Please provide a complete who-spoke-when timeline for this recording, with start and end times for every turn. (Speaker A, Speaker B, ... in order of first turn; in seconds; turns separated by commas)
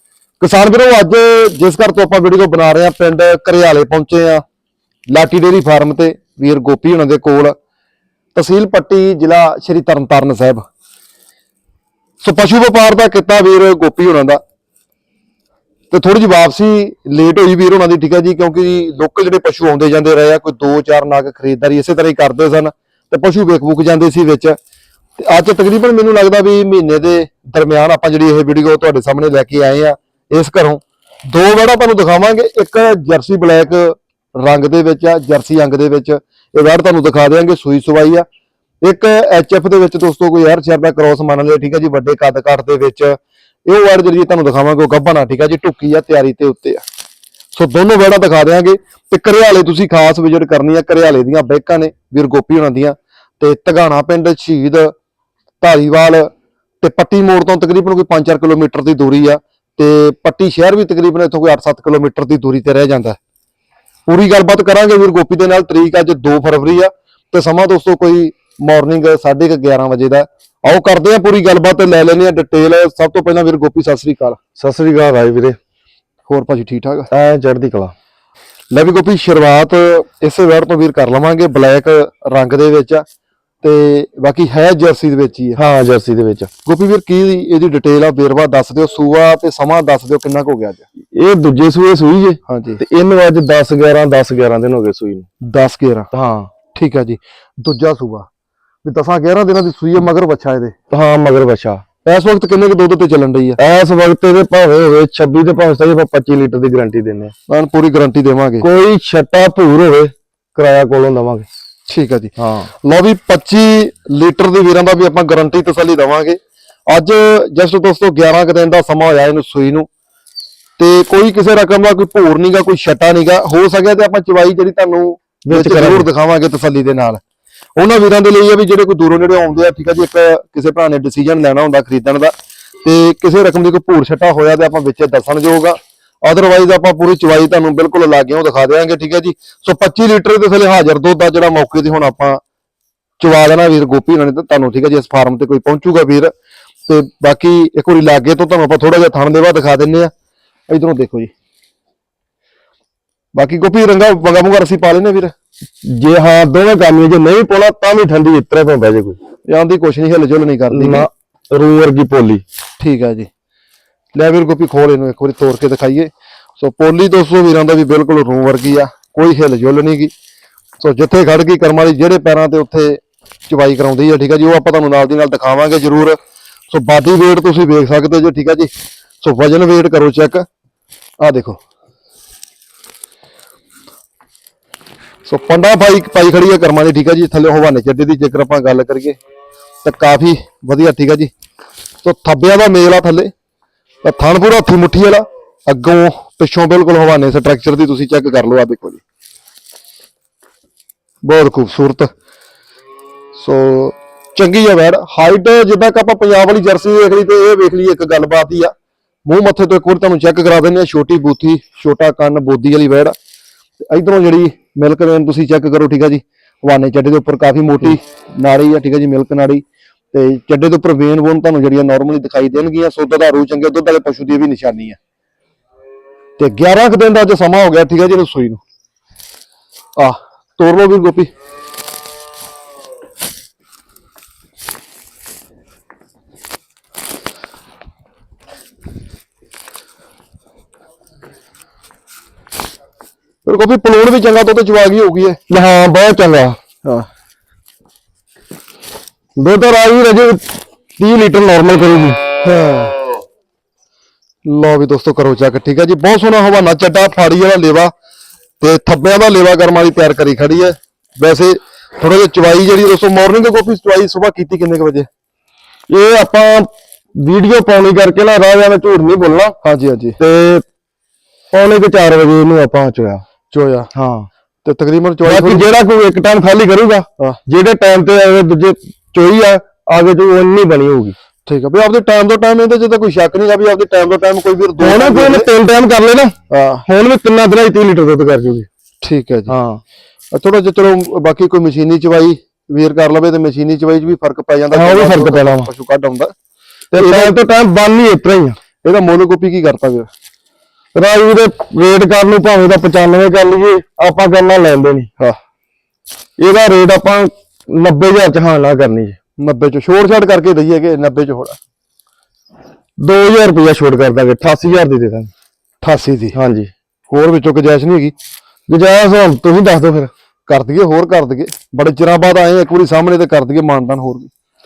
Speaker A: 0.4-4.4, Speaker A: 5.1-7.5, Speaker A: 8.3-10.6, Speaker A: 12.2-14.4, Speaker A: 15.9-24.6, Speaker A: 25.2-38.2, Speaker A: 38.8-46.8, Speaker A: 47.5-54.9, Speaker A: 55.6-63.2, Speaker A: 64.0-74.4, Speaker B: 74.6-75.6, Speaker A: 76.3-77.1, Speaker B: 77.1-77.9, Speaker A: 78.7-83.0, Speaker A: 83.6-85.6, Speaker B: 85.5-86.5, Speaker A: 86.6-90.8, Speaker B: 91.1-95.2, Speaker A: 92.5-92.8, Speaker A: 95.4-96.1, Speaker B: 96.1-96.5, Speaker A: 96.7-98.3, Speaker A: 98.8-100.7, Speaker B: 100.9-101.8, Speaker A: 102.0-103.6, Speaker B: 103.6-107.3, Speaker A: 107.5-108.7, Speaker B: 108.6-111.5, Speaker A: 111.9-119.9, Speaker B: 112.3-112.7, Speaker A: 120.8-127.2, Speaker B: 125.5-126.0, Speaker A: 127.8-142.4, Speaker A: 143.2-146.3, Speaker A: 146.9-150.1, Speaker A: 150.7-151.3, Speaker A: 153.3-155.3, Speaker B: 155.8-159.2, Speaker A: 159.5-161.1, Speaker B: 160.7-162.4, Speaker A: 162.8-163.3, Speaker A: 164.1-170.1, Speaker A: 170.8-176.2, Speaker A: 176.7-178.7, Speaker A: 179.2-180.4, Speaker A: 181.2-181.6, Speaker A: 185.2-189.2, Speaker A: 189.8-191.3, Speaker A: 192.0-193.3, Speaker A: 194.0-199.0, Speaker A: 201.2-202.1, Speaker A: 203.3-208.7, Speaker A: 209.2-213.1, Speaker A: 213.8-225.0, Speaker A: 226.4-228.6, Speaker A: 230.0-231.3, Speaker A: 243.4-245.4, Speaker B: 245.5-246.6, Speaker B: 249.3-252.2, Speaker A: 252.4-252.9, Speaker A: 254.4-257.9, Speaker A: 258.6-265.1, Speaker B: 265.9-269.6, Speaker A: 269.6-270.2, Speaker B: 270.2-270.6, Speaker B: 271.5-273.2, Speaker A: 273.5-273.9, Speaker B: 273.9-274.3, Speaker A: 274.6-275.6, Speaker B: 275.2-281.1, Speaker A: 281.4-285.5, Speaker B: 284.8-286.3, Speaker A: 286.5-286.8, Speaker B: 286.9-288.7, Speaker A: 289.0-289.5, Speaker B: 289.5-289.8, Speaker A: 290.3-296.3, Speaker B: 294.7-295.7, Speaker B: 296.9-298.6, Speaker A: 296.9-297.3, Speaker A: 298.8-300.1, Speaker B: 300.9-305.1, Speaker B: 306.4-309.1, Speaker A: 309.4-311.6, Speaker B: 313.0-315.3, Speaker A: 315.8-316.4, Speaker B: 316.3-316.7, Speaker A: 317.1-318.1, Speaker B: 318.7-320.1, Speaker A: 320.5-324.3